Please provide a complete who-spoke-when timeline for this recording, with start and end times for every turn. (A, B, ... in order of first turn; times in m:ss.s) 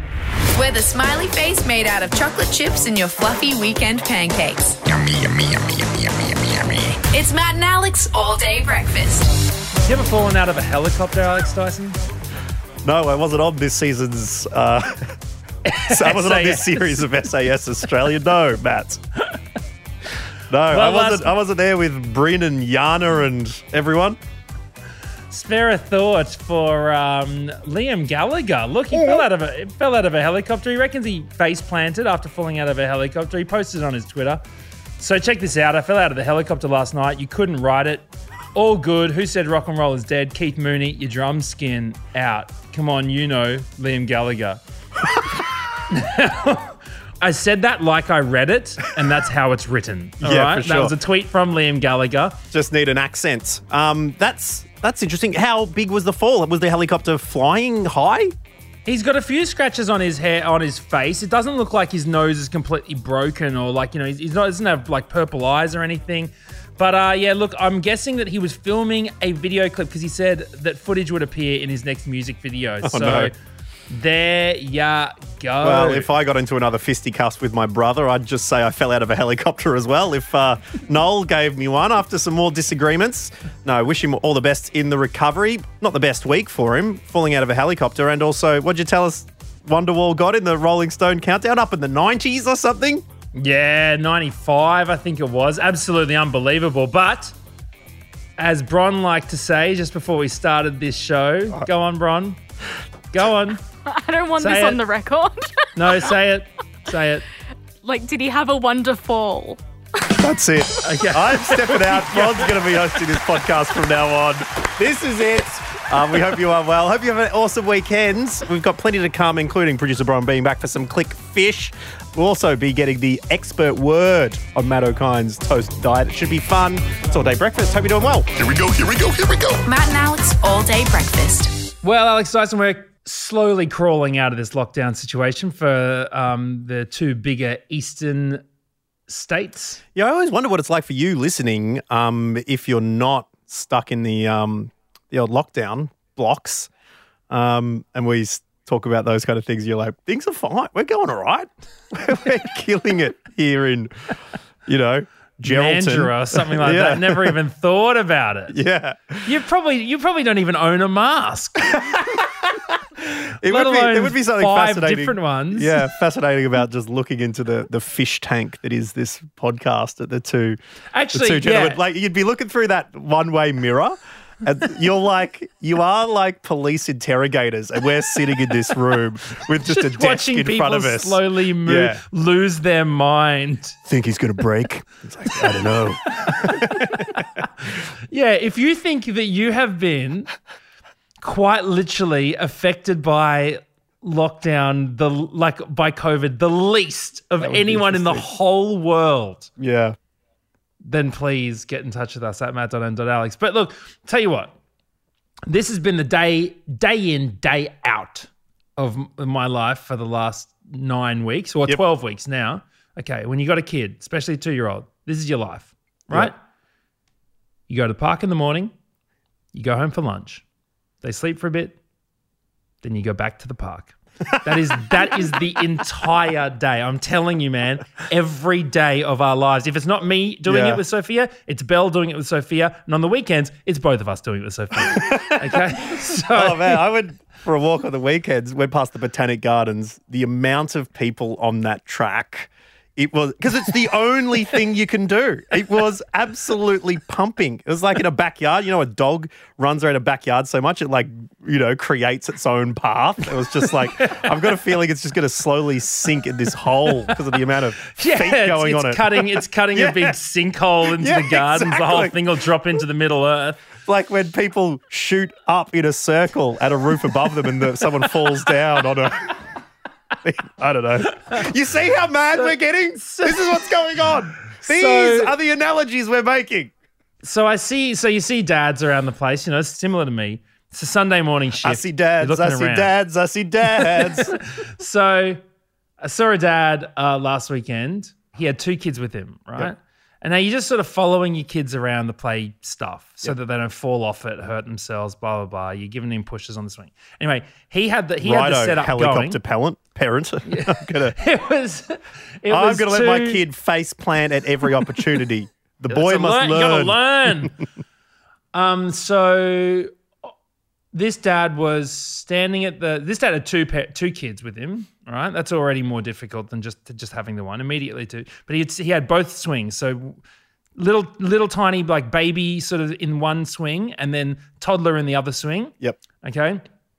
0:00.5-0:04.8 A
0:04.9-0:07.0 B
0:07.1-0:09.3 A
0:09.8-0:12.0 C
0:12.8-0:15.2 D
0:15.6-0:17.2 C
0:15.9-0:19.0 D
0:20.5-0:24.2 D
0:20.7-0:21.3 C
0:25.3-0:34.4 C
0:28.9-0:29.2 D
0:35.0-0:44.6 C
0:45.9-0:52.4 C
0:50.2-0:51.0 D
0:52.5-0:58.4 D
0:58.9-1:13.3 C
1:12.8-1:13.3 D
1:13.9-1:16.1 C
1:15.6-1:33.0 D
1:33.4-1:37.3 C
1:38.4-1:42.4 C
1:43.1-1:43.6 C
1:43.8-1:45.7 E
1:44.4-1:44.8 C
1:45.8-1:47.2 C
1:47.8-1:49.6 E
1:50.1-2:08.3 D
1:50.8-1:52.9 C
2:08.4-2:09.6 B
2:09.7-2:11.6 A
2:11.8-2:18.4 C
2:19.1-2:19.8 C
2:20.0-2:26.7 D
2:27.3-2:33.9 D
2:34.7-2:37.4 D
2:35.4-2:38.6 C
2:38.5-2:39.4 D
2:39.3-2:42.1 C
2:41.7-2:42.2 D
2:43.4-2:50.6 D
2:43.4-2:45.9 C
2:50.9-2:51.8 C
2:51.1-3:02.0 D
2:59.6-3:03.8 C
3:03.9-3:07.4 D
3:06.2-3:07.2 C
3:08.1-3:10.3 C
3:11.2-3:19.5 C
3:17.4-3:18.3 D
3:19.6-3:20.0 D
3:20.8-3:24.5 C
3:25.5-3:36.4 C
3:37.7-3:38.7 C
3:39.5-3:40.4 C
3:41.0-3:41.8 C
3:42.8-3:56.8 C
3:44.4-3:45.3 D
3:50.5-3:50.8 D
3:54.8-3:55.7 D
3:56.3-4:20.2 D
4:14.0-4:14.5 C
4:18.0-4:23.7 C
4:20.9-4:22.2 D
4:23.8-4:29.4 D
4:30.2-4:36.7 D
4:32.3-4:33.7 C
4:34.5-4:35.3 C
4:37.2-4:42.9 C
4:41.6-4:44.4 D
4:43.8-4:45.4 C
4:46.0-4:59.4 C
4:58.2-5:01.2 D
5:00.5-5:03.4 C
5:02.5-5:07.0 D
5:05.9-5:07.6 C
5:08.5-5:09.9 C
5:10.9-5:20.2 C
5:20.8-5:26.6 C